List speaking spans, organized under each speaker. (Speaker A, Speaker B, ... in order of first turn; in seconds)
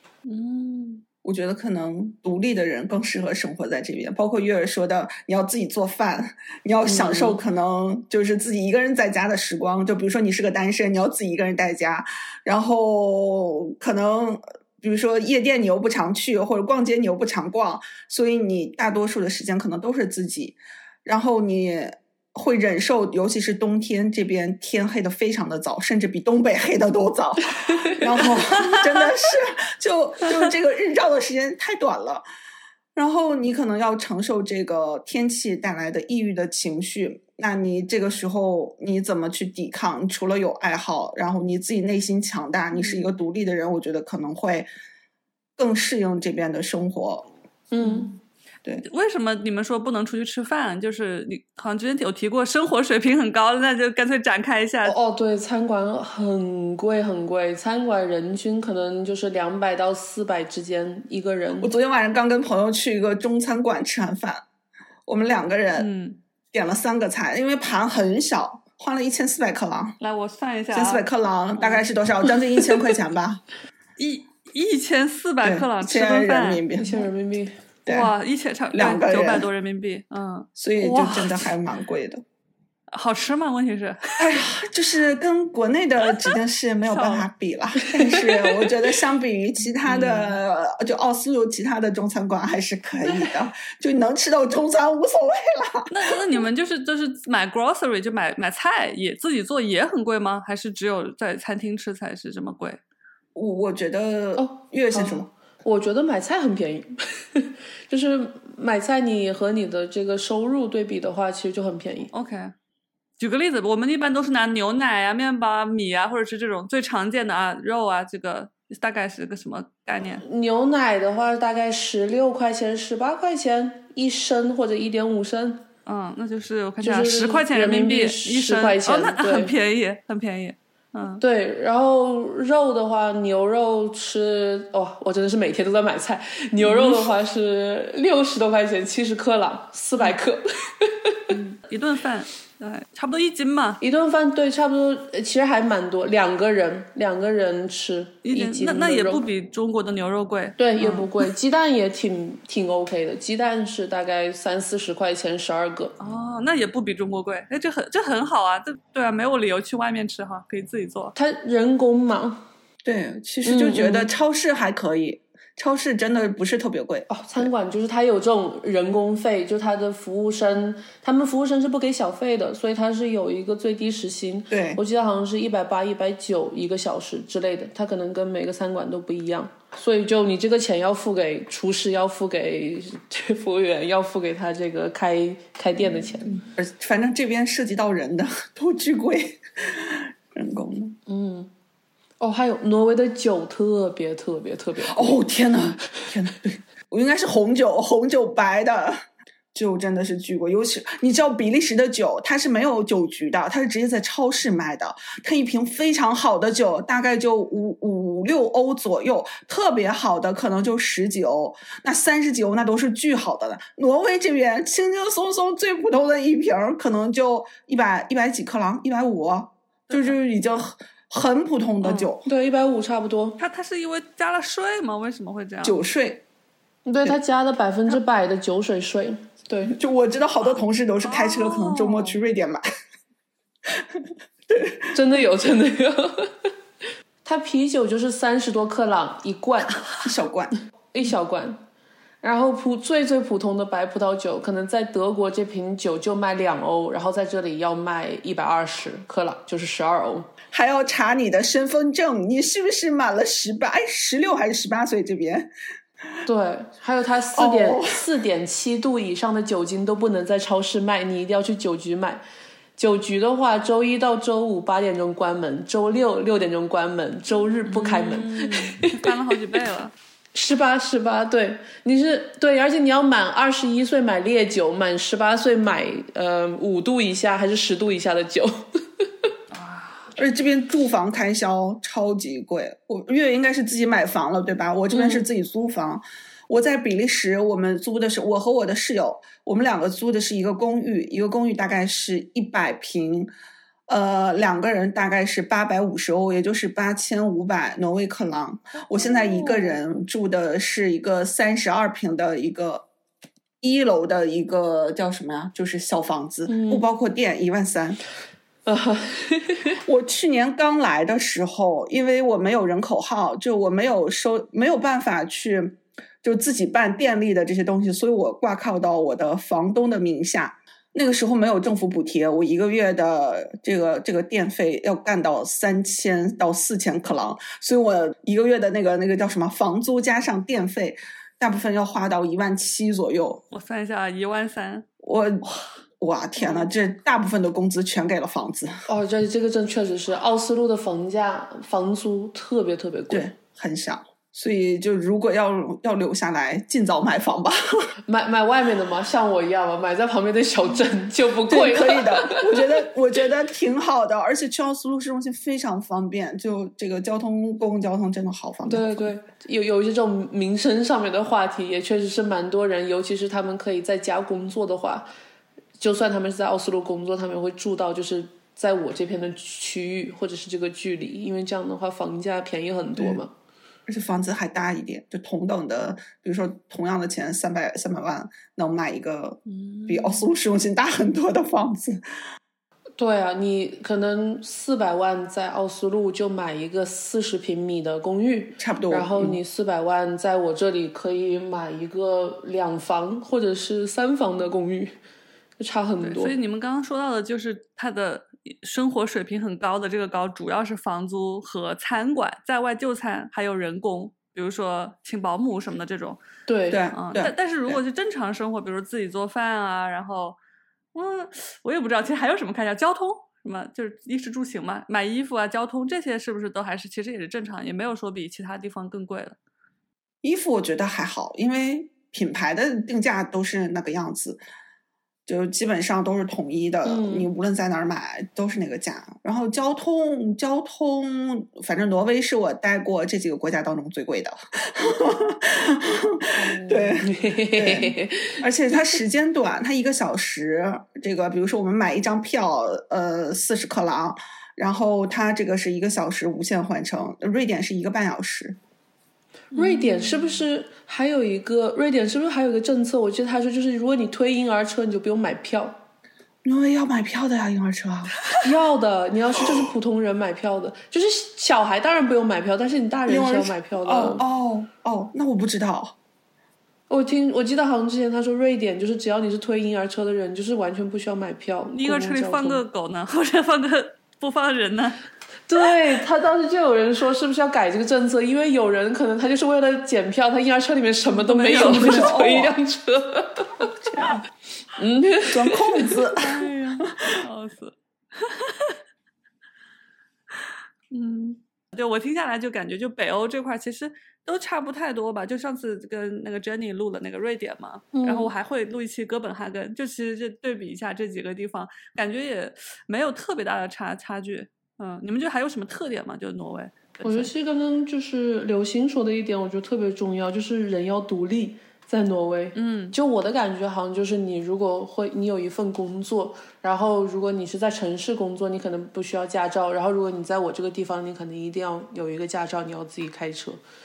Speaker A: 0.2-1.0, 28.6-28.9, 47.8-48.2, 48.8-54.9, 65.7-66.2, 70.0-71.0, 71.6-71.8, 74.0-76.6, 77.8-81.5, 82.9-84.3, 86.9-87.3, 88.1-88.6, 89.8-90.4, 95.9-102.8, 112.1-112.5, 113.2-120.2, 125.8-131.2, 136.6-137.1, 141.3-143.8, 148.2-151.2, 156.0-161.1, 219.9-220.2, 221.8-222.1, 223.4-225.8, 231.0-232.2, 267.7-269.9, 279.5-280.1, 333.5-334.9, 396.0-406.2, 406.9-410.4, 410.9-419.4, 449.5-450.4, 471.7-475.0, 481.1-482.3, 486.1-488.8, 490.4-507.3, 512.5-512.9
Speaker B: 1.2-32.2, 32.9-44.7, 45.6-47.2, 61.6-64.4, 65.1-65.9, 66.5-70.0, 70.7-73.4, 75.4-77.1, 77.8-78.1, 78.7-79.5, 80.5-82.2, 84.2-96.4, 103.3-105.3, 162.8-167.5, 174.5-174.8, 186.4-191.0, 194.9-222.3, 225.6-226.2, 229.7-232.6, 233.7-234.9, 240.0-240.5, 250.5-255.5, 257.3-258.0, 280.1-293.3, 293.9-302.9, 303.6-308.0, 309.8-333.4, 335.0-335.5, 336.0-338.8, 343.1-347.6, 351.5-359.1, 373.9-382.0, 388.6-389.4, 406.7-407.8, 420.2-424.4, 425.2-448.6, 456.4-458.2, 463.1-465.9, 481.6-482.5, 483.8-484.2, 485.2-487.2
Speaker C: 6.8-7.4, 47.7-48.1, 54.8-61.7, 76.8-77.6, 104.4-112.1, 120.2-125.6, 126.8-129.5, 131.2-141.3, 143.8-149.2, 150.6-155.9, 161.2-162.4, 163.4-164.1, 167.1-186.4, 191.1-191.5, 192.2-195.2, 222.2-223.4, 226.8-229.8, 234.9-236.5, 237.2-239.8, 240.9-241.6, 242.2-250.3, 256.2-262.2, 262.8-269.1, 270.3-279.1, 284.9-285.2, 306.5-306.8, 308.6-309.7, 338.9-343.3, 348.1-352.5, 358.6-365.1, 365.8-373.3, 379.6-380.2, 383.0-394.9, 395.6-396.3, 406.5-406.8, 426.8-427.3, 436.4-438.4, 449.5-455.8, 458.4-464.2, 466.9-472.6, 475.5-483.7, 484.8-485.9, 497.9-498.3, 507.0-523.6